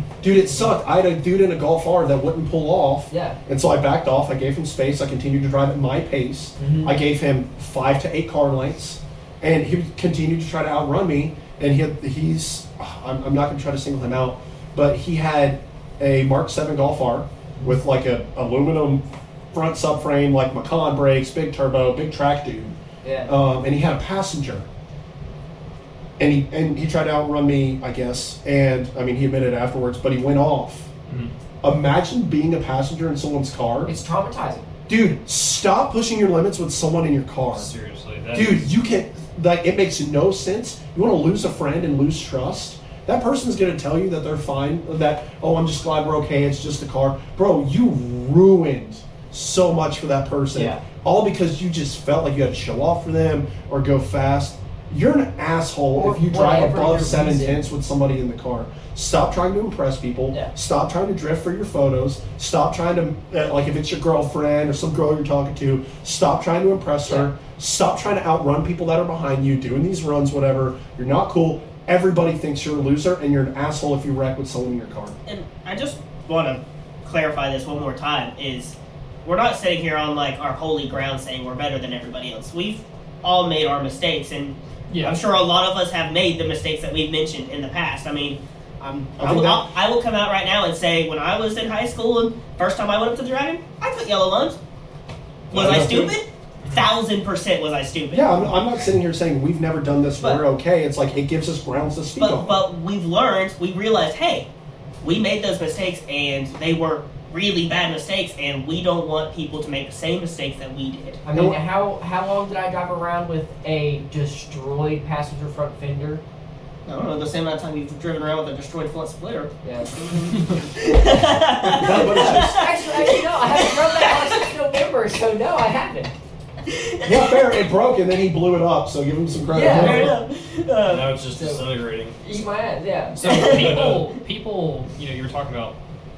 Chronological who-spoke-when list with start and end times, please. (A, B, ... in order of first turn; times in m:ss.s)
0:00.2-0:22.7 A
0:03.1-0:03.4 B
0:06.6-0:07.0 B
0:23.0-0:23.3 B
0:23.3-0:24.7 A
0:26.2-0:30.9 A
0:31.6-0:33.9 A
0:33.9-0:34.7 B
0:34.9-0:37.7 A
0:37.6-0:38.7 C
0:38.3-1:15.2 A
0:50.5-0:50.8 B
0:56.0-0:57.7 B
1:15.3-1:34.6 D
1:24.9-1:25.2 C
1:29.2-1:29.7 A
1:35.5-1:36.1 A
1:35.5-1:38.3 D
1:38.1-1:42.6 A
1:42.2-1:44.5 D
1:45.0-1:51.2 D
1:51.2-1:56.2 B
1:56.9-2:04.4 D
1:59.6-1:59.9 B
2:01.7-2:02.6 A
2:02.1-2:06.1 B
2:06.7-2:07.6 D
2:07.0-2:10.2 A
2:09.5-2:10.1 B
2:09.7-2:11.2 D
2:09.9-2:10.2 E
2:10.8-2:12.2 E
2:11.3-2:11.6 B
2:12.2-2:13.5 B
2:13.2-2:15.8 C
2:13.3-2:13.8 D
2:13.4-2:14.0 E